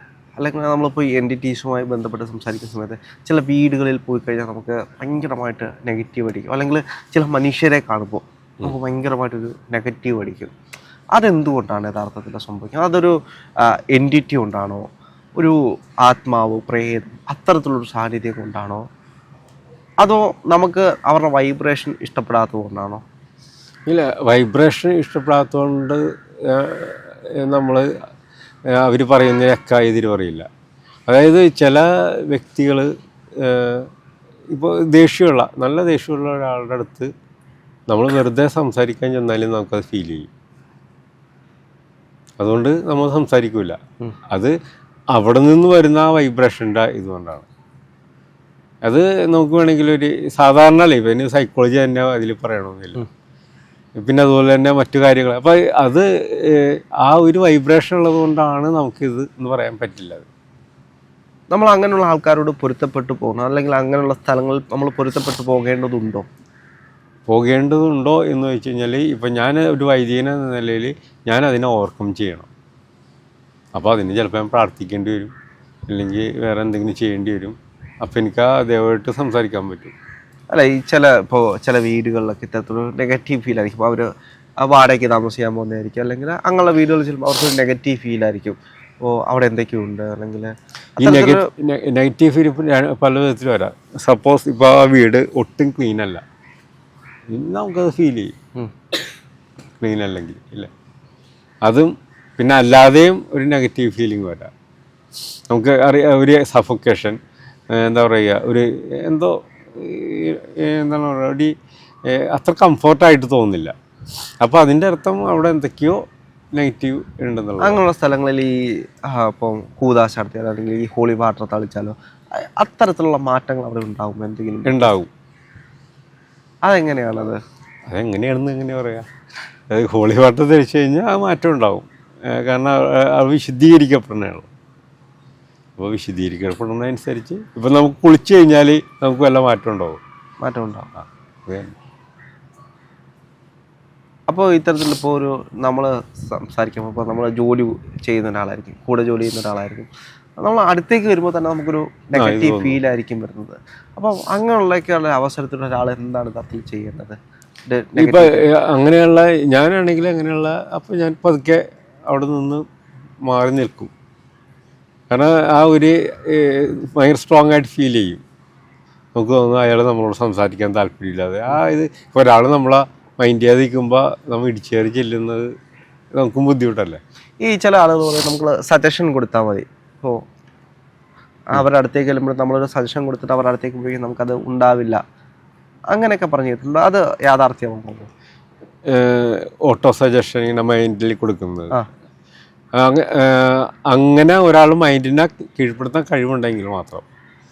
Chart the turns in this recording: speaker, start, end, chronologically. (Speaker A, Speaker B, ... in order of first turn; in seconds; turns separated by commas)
Speaker A: 0.4-10.5, Speaker A: 11.1-14.8, Speaker A: 15.4-18.9, Speaker A: 20.0-23.0, Speaker B: 23.9-27.9, Speaker B: 28.7-30.5, Speaker B: 31.1-33.9, Speaker B: 34.5-37.1, Speaker B: 37.9-40.3, Speaker B: 42.4-43.8, Speaker B: 45.1-47.5, Speaker B: 48.9-53.1, Speaker B: 54.0-60.3, Speaker A: 61.5-66.3, Speaker B: 67.3-72.5, Speaker B: 73.8-75.3, Speaker B: 75.9-79.9, Speaker A: 80.5-84.1, Speaker A: 84.6-91.5, Speaker B: 91.0-96.2, Speaker B: 97.3-98.3, Speaker B: 99.8-100.7, Speaker B: 101.6-104.5, Speaker B: 105.5-107.2, Speaker B: 107.7-111.5, Speaker B: 112.1-113.7, Speaker B: 114.4-117.8, Speaker A: 117.6-124.9, Speaker B: 124.7-125.1, Speaker A: 126.7-127.4, Speaker B: 127.9-129.1, Speaker B: 129.7-134.5, Speaker B: 135.8-140.0, Speaker A: 140.4-140.9, Speaker B: 141.0-141.8, Speaker A: 144.3-149.9, Speaker A: 150.4-158.5, Speaker B: 152.2-152.8, Speaker B: 158.0-162.7, Speaker B: 163.2-163.9, Speaker B: 165.1-168.2, Speaker B: 169.2-175.5, Speaker B: 176.2-177.0, Speaker A: 177.4-180.2, Speaker A: 181.5-185.0, Speaker A: 185.9-188.1, Speaker B: 188.9-191.8, Speaker B: 192.8-197.1